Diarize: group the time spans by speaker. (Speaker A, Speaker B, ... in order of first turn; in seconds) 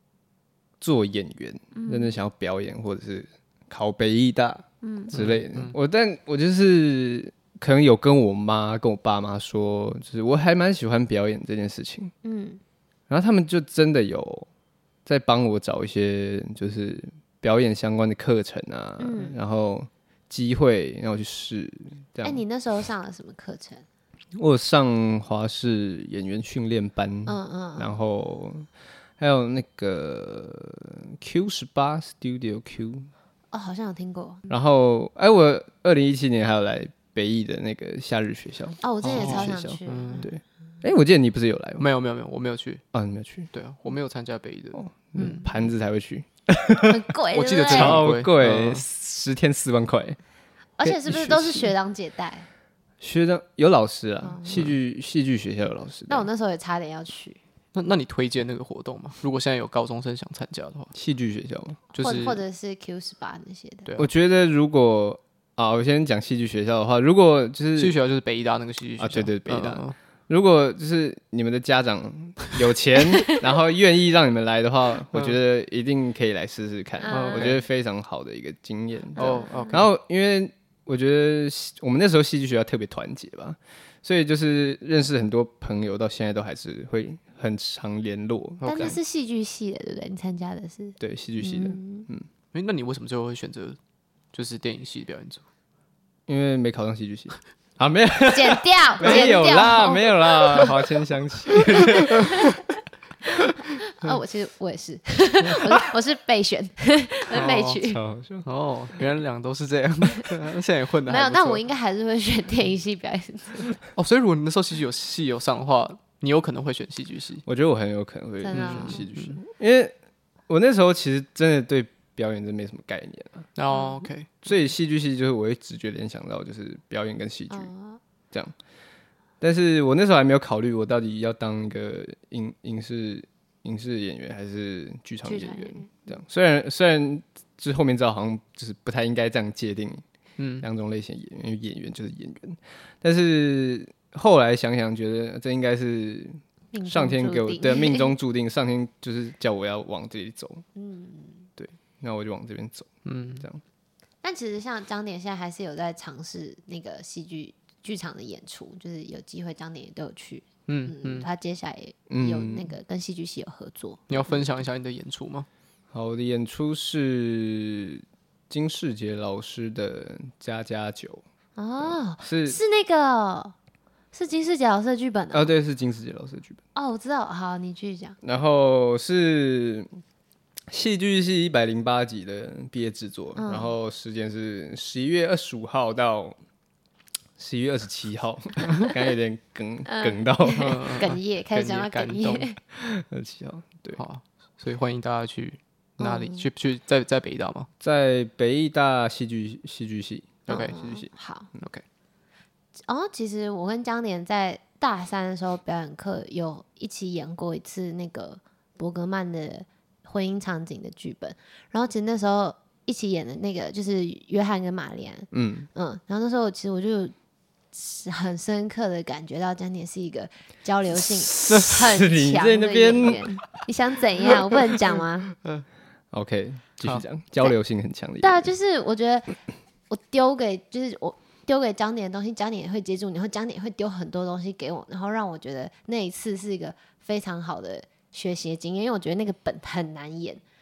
Speaker A: 0.8-12.1, 13.1-14.5, 15.1-22.4, 24.4-28.7, 29.2-33.1, 34.5-41.9, 42.9-43.5, 44.7-47.0, 47.7-50.2, 50.8-51.7, 53.0-56.3, 60.9-61.8, 64.0-68.0, 69.0-89.0, 91.0-92.3, 96.3-102.3, 107.8-108.5, 117.4-119.9, 120.5-123.5, 124.4-127.7, 129.4-140.0, 140.6-150.6, 151.6-153.6, 162.1-162.7, 165.9-171.2, 171.8-172.6, 175.3-176.6, 178.2-179.9, 180.7-186.4, 187.4-191.0, 192.7-194.0, 197.8-201.1, 215.3-215.7, 221.2-223.3, 226.1-228.5
Speaker B: 1.7-2.1, 4.8-5.1, 12.2-12.6, 19.0-19.4, 22.2-23.9, 27.3-27.9, 33.5-34.4, 38.8-40.3, 45.1-45.5, 46.9-48.0, 50.8-52.5, 54.2-54.7, 56.1-57.4, 62.0-63.9, 77.0-77.5, 79.2-79.8, 88.6-92.1, 98.3-100.8, 101.6-102.6, 103.4-108.0, 111.1-113.8, 118.4-119.0, 123.7-124.1, 127.5-128.0, 135.2-136.0, 146.7-148.1, 150.8-151.5, 154.2-164.4, 171.6-173.6, 174.1-175.5, 176.7-178.2, 183.4-183.7, 189.9-192.6, 196.0-196.5, 200.5-201.5, 202.9-217.1, 217.7-225.3, 228.2-229.4, 229.9-240.4
Speaker C: 5.1-5.7, 39.0-40.3, 41.8-42.8, 43.5-44.9, 47.3-48.8, 57.7-60.9, 61.9-62.4, 67.8-70.0, 77.1-77.6, 79.2-79.9, 88.6-89.0, 92.5-93.8, 94.3-95.4, 107.3-107.8, 108.4-111.6, 113.9-117.4, 118.5-119.4, 123.6-124.3, 140.4-140.7, 153.1-153.4, 160.7-161.3, 164.1-165.5, 190.6-192.5, 194.0-197.7, 200.5-200.8, 201.6-201.8